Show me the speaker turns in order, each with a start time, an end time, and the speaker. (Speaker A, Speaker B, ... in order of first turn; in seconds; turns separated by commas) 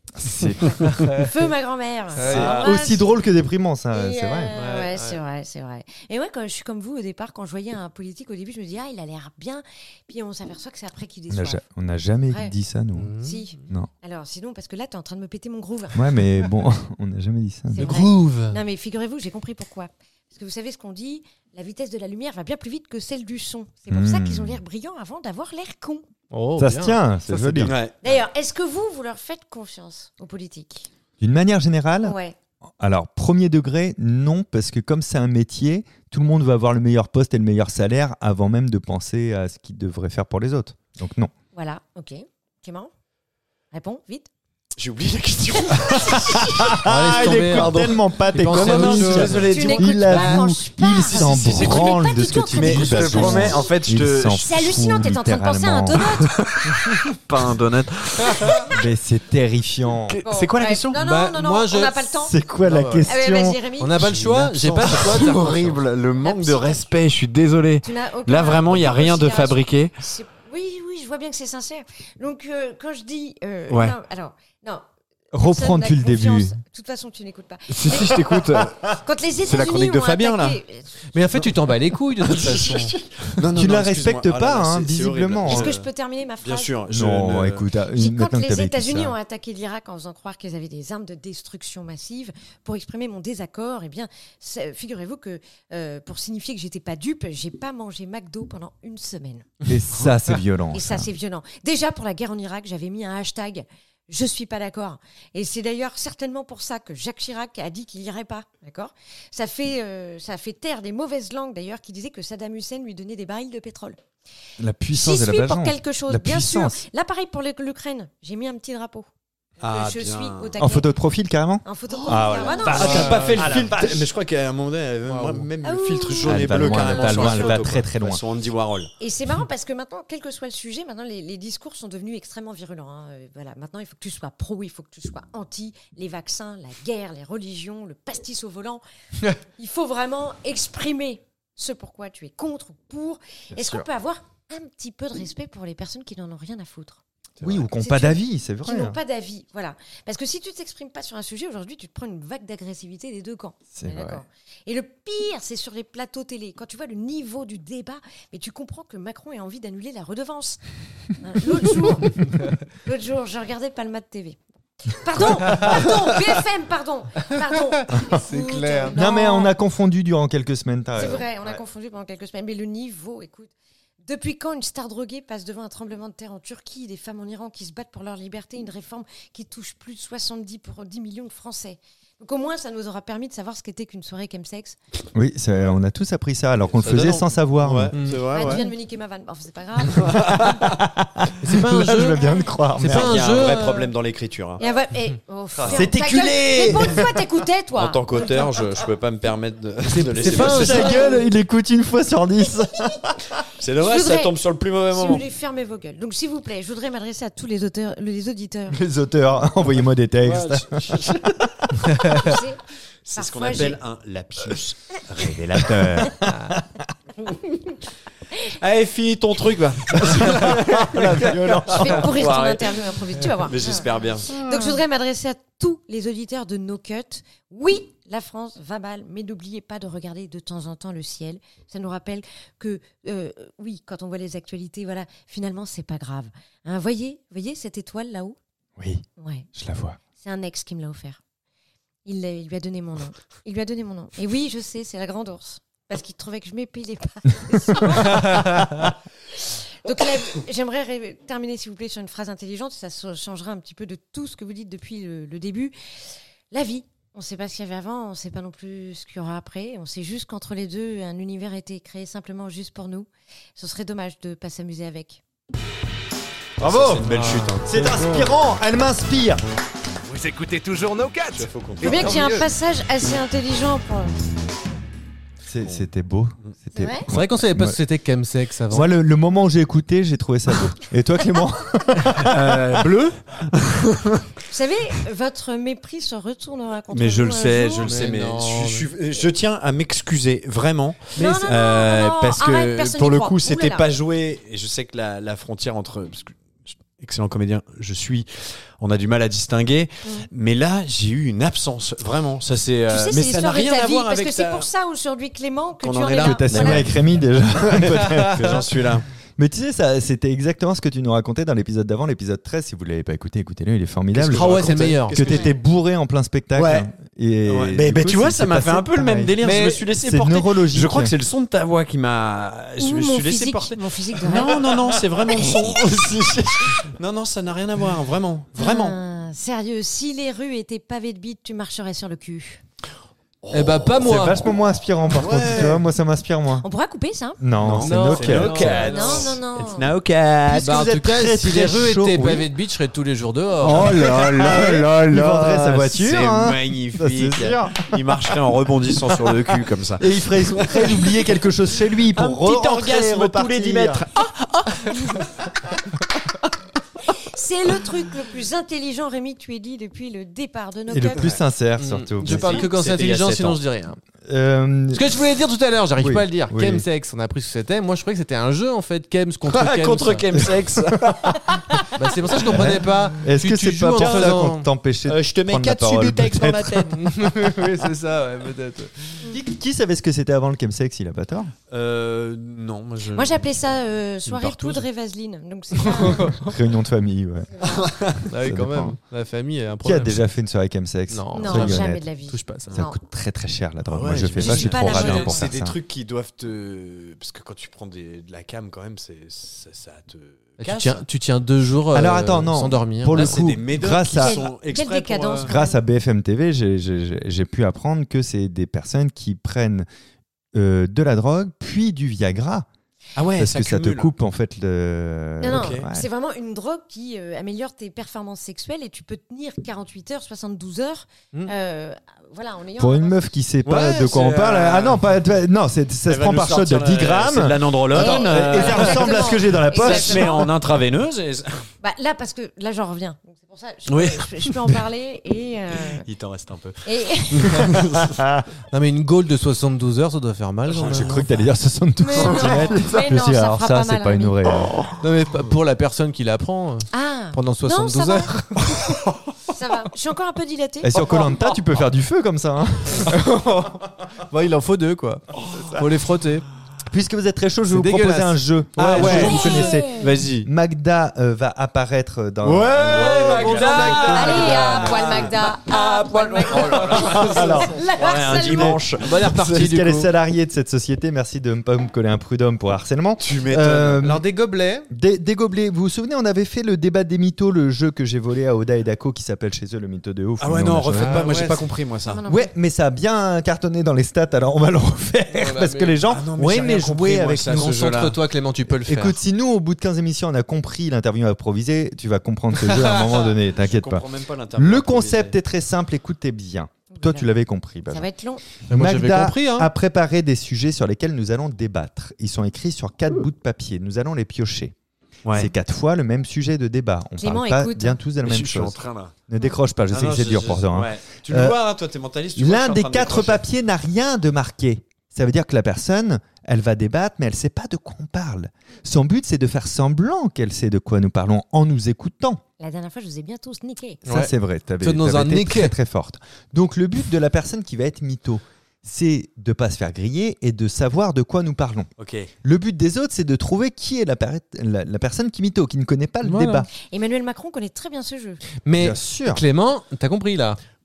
Speaker A: 0.2-1.0, Speaker B: 0.6-3.2, Speaker C: 0.9-1.3, Speaker C: 2.2-2.7, Speaker A: 2.2-4.5, Speaker D: 2.3-2.6, Speaker B: 3.9-11.6, Speaker C: 4.5-5.2, Speaker A: 11.3-13.1, Speaker C: 13.0-13.4, Speaker B: 13.2-16.2, Speaker A: 15.9-18.0, Speaker B: 17.7-26.1, Speaker C: 17.8-18.6, Speaker A: 23.9-24.6, Speaker C: 26.3-27.8, Speaker A: 26.6-27.8, Speaker D: 27.6-28.1, Speaker B: 28.0-30.9, Speaker A: 31.2-32.2, Speaker B: 32.0-32.4, Speaker A: 32.8-41.3, Speaker B: 41.5-42.9, Speaker B: 43.7-44.3, Speaker D: 44.8-50.4, Speaker B: 45.7-46.2, Speaker A: 46.4-56.0, Speaker C: 46.7-49.7, Speaker B: 49.4-53.7, Speaker D: 51.0-54.5, Speaker B: 54.4-56.4, Speaker D: 56.3-58.8, Speaker C: 58.3-58.6, Speaker A: 58.7-60.2, Speaker D: 60.1-61.0, Speaker B: 60.2-62.4, Speaker C: 61.0-62.0, Speaker A: 62.2-63.6, Speaker C: 62.6-63.1, Speaker B: 63.1-64.2, Speaker C: 63.8-65.8, Speaker D: 64.0-70.0, Speaker B: 66.2-67.0, Speaker B: 67.8-81.2, Speaker D: 73.7-74.0, Speaker A: 75.3-76.5, Speaker D: 77.7-78.9, Speaker D: 79.4-80.6, Speaker C: 81.1-83.0, Speaker D: 82.2-85.9, Speaker A: 83.5-85.7, Speaker B: 85.5-86.7, Speaker D: 86.4-87.7, Speaker A: 86.9-89.2, Speaker B: 87.9-99.5, Speaker A: 99.7-101.1, Speaker B: 100.7-114.0, Speaker A: 114.6-116.8, Speaker B: 115.0-119.1, Speaker D: 119.6-120.6, Speaker B: 119.6-120.9, Speaker A: 120.6-124.1, Speaker B: 121.7-123.2, Speaker D: 122.6-128.9, Speaker C: 122.8-123.5, Speaker C: 125.1-125.5, Speaker B: 125.6-127.7, Speaker A: 126.3-128.2, Speaker B: 129.0-138.8, Speaker B: 139.4-147.0, Speaker A: 143.5-143.9, Speaker A: 147.4-149.0, Speaker B: 147.7-160.6, Speaker A: 153.7-154.2, Speaker B: 161.2-169.5, Speaker C: 167.9-169.0, Speaker A: 168.9-171.3, Speaker B: 170.9-184.8, Speaker A: 185.1-187.9, Speaker D: 186.7-188.7, Speaker C: 187.9-188.7, Speaker B: 188.3-190.4, Speaker D: 190.0-190.7, Speaker A: 190.1-193.2, Speaker C: 191.4-192.2, Speaker C: 192.8-193.9, Speaker D: 192.8-194.6, Speaker B: 194.6-198.6, Speaker D: 195.6-195.9, Speaker A: 195.7-197.2, Speaker D: 197.8-201.1, Speaker C: 199.9-201.1, Speaker A: 200.2-203.2, Speaker B: 200.5-201.3, Speaker D: 203.6-205.2, Speaker B: 203.8-204.3, Speaker B: 204.9-208.8, Speaker A: 208.7-212.3, Speaker D: 210.2-211.3, Speaker B: 212.1-212.6, Speaker D: 213.1-216.2, Speaker B: 213.2-213.8, Speaker A: 215.2-216.8, Speaker D: 218.5-224.4, Speaker A: 220.0-222.2, Speaker B: 221.7-238.4, Speaker A: 238.8-239.0, Speaker B: 239.2-239.5, Speaker A: 239.6-240.0, Speaker B: 240.2-241.2, Speaker B: 242.1-248.5, Speaker A: 247.5-248.9, Speaker B: 249.3-255.7, Speaker B: 256.5-265.2, Speaker D: 266.6-267.8, Speaker A: 266.6-267.1, Speaker C: 267.1-268.3, Speaker A: 267.6-269.4, Speaker E: 270.1-272.5, Speaker D: 271.3-272.2, Speaker B: 271.8-274.2, Speaker A: 275.5-277.8, Speaker B: 276.7-277.1, Speaker C: 277.1-278.9, Speaker A: 278.7-282.8, Speaker D: 282.2-284.2, Speaker B: 284.5-288.0, Speaker D: 286.9-304.7, Speaker C: 287.9-288.9, Speaker B: 291.2-293.9, Speaker B: 302.9-306.9, Speaker D: 305.8-306.9, Speaker A: 306.2-308.7, Speaker D: 307.6-309.1, Speaker A: 309.4-319.4, Speaker D: 314.1-315.6, Speaker C: 314.3-315.3, Speaker D: 316.6-316.9, Speaker D: 317.5-329.0, Speaker C: 319.4-319.8, Speaker A: 320.0-321.1, Speaker B: 322.8-324.8, Speaker B: 328.6-332.6, Speaker D: 333.4-334.1, Speaker C: 333.5-334.4, Speaker A: 334.0-336.6, Speaker D: 335.1-335.9, Speaker B: 336.6-337.4, Speaker A: 337.4-338.9, Speaker D: 337.6-340.8, Speaker C: 337.8-339.3, Speaker B: 338.6-339.9, Speaker A: 340.5-342.5, Speaker C: 340.6-344.6, Speaker D: 343.6-351.4, Speaker A: 343.7-347.9, Speaker A: 350.0-354.1, Speaker D: 352.1-354.3, Speaker B: 354.9-355.2, Speaker B: 357.1-361.3, Speaker A: 360.9-362.7, Speaker C: 361.8-364.0, Speaker D: 362.2-363.6, Speaker A: 364.3-365.0, Speaker C: 364.9-370.5, Speaker A: 366.0-366.9, Speaker D: 369.5-371.8, Speaker A: 371.1-371.4, Speaker C: 372.0-374.7, Speaker D: 372.3-372.7, Speaker A: 372.5-377.0, Speaker D: 374.0-374.5, Speaker D: 375.1-377.1, Speaker C: 376.9-379.3, Speaker A: 379.3-381.5, Speaker D: 381.7-383.5, Speaker B: 383.1-386.3, Speaker D: 384.3-384.9, Speaker C: 385.8-386.6, Speaker A: 386.3-387.6, Speaker D: 387.6-388.3, Speaker C: 388.3-390.2, Speaker A: 388.3-389.0, Speaker A: 389.8-392.1, Speaker C: 391.1-392.8, Speaker B: 391.3-393.0, Speaker A: 392.7-395.8, Speaker D: 393.9-401.1, Speaker B: 394.4-395.5, Speaker C: 400.6-403.4, Speaker A: 401.9-404.4, Speaker D: 403.1-405.5, Speaker B: 404.1-405.8, Speaker A: 405.4-409.9, Speaker A: 410.5-412.7, Speaker D: 413.2-414.1, Speaker A: 413.4-416.1, Speaker B: 415.4-423.2, Speaker D: 415.5-415.8, Speaker A: 422.8-430.4, Speaker D: 423.6-425.0, Speaker D: 426.1-431.7, Speaker B: 427.9-430.5, Speaker B: 431.8-436.1, Speaker D: 433.9-434.6, Speaker D: 435.9-438.2, Speaker B: 436.8-437.7, Speaker A: 438.1-438.4, Speaker C: 438.7-441.2, Speaker D: 440.7-441.3, Speaker A: 440.8-444.8, Speaker B: 442.0-444.4, Speaker D: 442.3-442.7, Speaker C: 445.0-448.8, Speaker B: 446.9-448.4, Speaker B: 449.5-451.0, Speaker A: 450.8-453.2, Speaker D: 451.0-451.4, Speaker C: 453.0-456.4, Speaker D: 455.5-455.8, Speaker A: 456.9-465.0, Speaker C: 457.7-459.8, Speaker D: 458.9-460.5, Speaker B: 459.2-460.1, Speaker D: 462.4-465.4, Speaker C: 462.9-467.6, Speaker B: 464.0-468.8, Speaker D: 466.4-469.5, Speaker A: 466.9-474.2, Speaker C: 469.0-470.1, Speaker D: 473.2-474.1, Speaker C: 474.0-474.9, Speaker A: 474.9-481.3, Speaker D: 480.4-482.2, Speaker C: 480.9-481.6, Speaker B: 482.1-482.5, Speaker A: 482.2-487.8, Speaker C: 485.4-486.0, Speaker D: 486.1-488.2, Speaker C: 487.4-489.2, Speaker A: 488.7-494.0, Speaker C: 492.6-493.2, Speaker D: 493.6-495.4, Speaker A: 494.6-498.1, Speaker B: 496.9-497.3, Speaker B: 497.9-498.4, Speaker A: 498.7-504.7, Speaker C: 498.7-499.7, Speaker D: 505.3-505.5, Speaker A: 505.3-511.6, Speaker B: 507.2-508.0, Speaker D: 508.2-509.1, Speaker D: 509.9-513.4, Speaker A: 512.4-522.4, Speaker B: 522.6-524.0, Speaker A: 524.0-531.9, Speaker C: 524.1-525.8, Speaker D: 532.0-532.3, Speaker A: 532.4-536.7, Speaker C: 536.2-536.7, Speaker B: 536.8-538.4, Speaker C: 538.6-540.6, Speaker A: 538.8-539.4